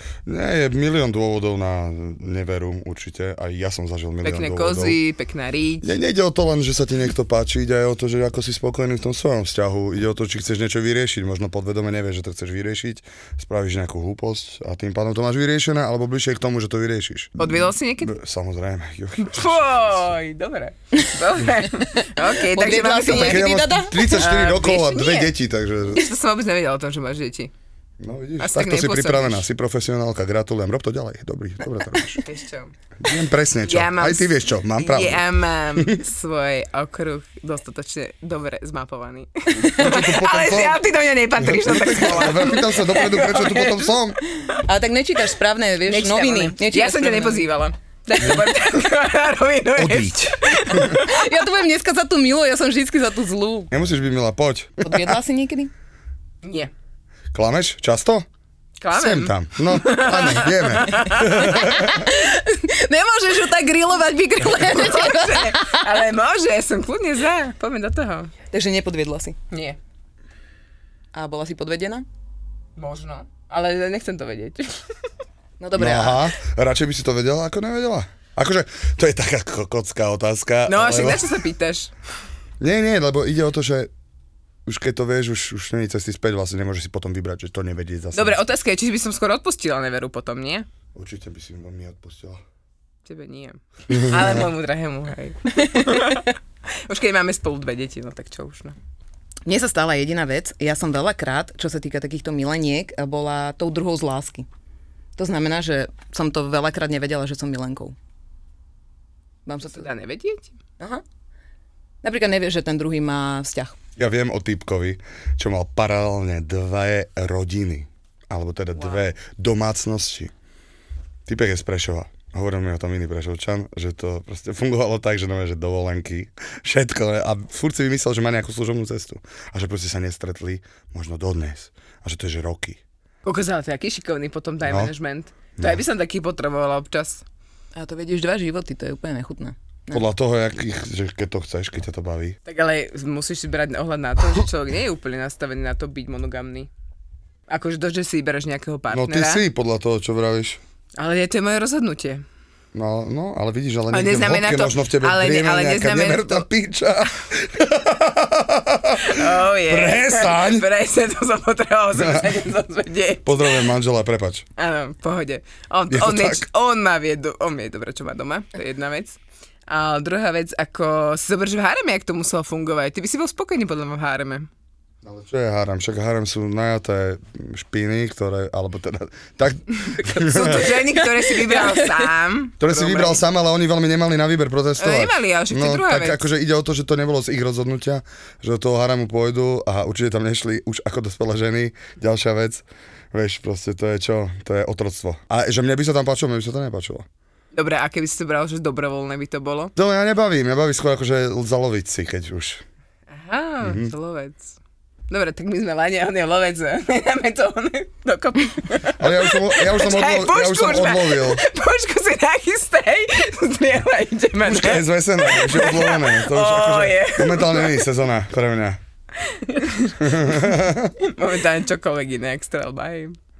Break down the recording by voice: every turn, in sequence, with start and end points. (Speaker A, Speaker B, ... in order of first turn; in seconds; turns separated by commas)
Speaker A: 0.2-5.0, Speaker B: 4.2-5.9, Speaker A: 5.8-20.1, Speaker B: 17.4-18.1, Speaker B: 19.2-23.5, Speaker C: 22.2-24.2, Speaker A: 23.1-26.0, Speaker B: 24.1-25.3, Speaker B: 25.9-27.5, Speaker A: 28.0-32.2, Speaker B: 28.4-29.4, Speaker B: 32.2-32.7, Speaker A: 33.0-35.2, Speaker B: 33.7-34.3, Speaker B: 34.8-44.0, Speaker A: 39.5-40.8, Speaker A: 41.4-44.2, Speaker C: 44.6-47.4, Speaker B: 45.9-51.1, Speaker A: 48.2-48.5, Speaker A: 49.8-51.0, Speaker C: 51.0-53.7, Speaker A: 53.7-55.0, Speaker C: 54.8-55.7, Speaker B: 56.4-56.7, Speaker A: 57.3-58.2, Speaker B: 58.8-61.6, Speaker A: 58.9-61.9, Speaker C: 61.3-65.9, Speaker B: 64.5-68.3, Speaker C: 68.5-69.3, Speaker B: 69.5-69.8, Speaker C: 71.1-72.0, Speaker B: 72.8-74.8, Speaker C: 75.6-76.3, Speaker A: 75.7-81.3, Speaker B: 80.7-81.9, Speaker A: 82.6-83.9, Speaker A: 84.7-88.4, Speaker B: 88.1-90.7, Speaker A: 90.9-92.4, Speaker B: 93.0-96.3, Speaker A: 93.9-94.4, Speaker B: 96.8-98.7, Speaker C: 99.5-104.5, Speaker C: 105.2-107.9, Speaker C: 109.5-109.8, Speaker B: 109.6-110.5, Speaker C: 112.0-113.8, Speaker A: 114.0-120.3, Speaker A: 121.2-132.8, Speaker B: 133.2-137.2, Speaker A: 134.6-134.9, Speaker A: 135.6-135.8, Speaker C: 137.8-140.0, Speaker A: 139.9-142.3, Speaker B: 142.5-146.7, Speaker B: 147.5-149.4, Speaker A: 148.9-150.6, Speaker B: 151.0-152.2, Speaker A: 152.7-160.7, Speaker B: 153.9-156.4, Speaker B: 159.0-163.6, Speaker A: 161.9-162.3, Speaker A: 163.2-164.4, Speaker B: 164.6-174.5, Speaker A: 165.9-166.4, Speaker A: 175.0-180.8, Speaker B: 180.1-183.2, Speaker C: 180.4-181.6, Speaker A: 182.6-197.1, Speaker B: 184.8-186.2, Speaker B: 197.5-199.7, Speaker A: 199.8-202.6, Speaker B: 203.1-204.5, Speaker A: 203.6-203.9, Speaker B: 205.1-217.8, Speaker A: 209.0-211.4, Speaker A: 214.4-218.8, Speaker B: 219.2-220.0, Speaker A: 220.0-220.9, Speaker B: 221.0-223.2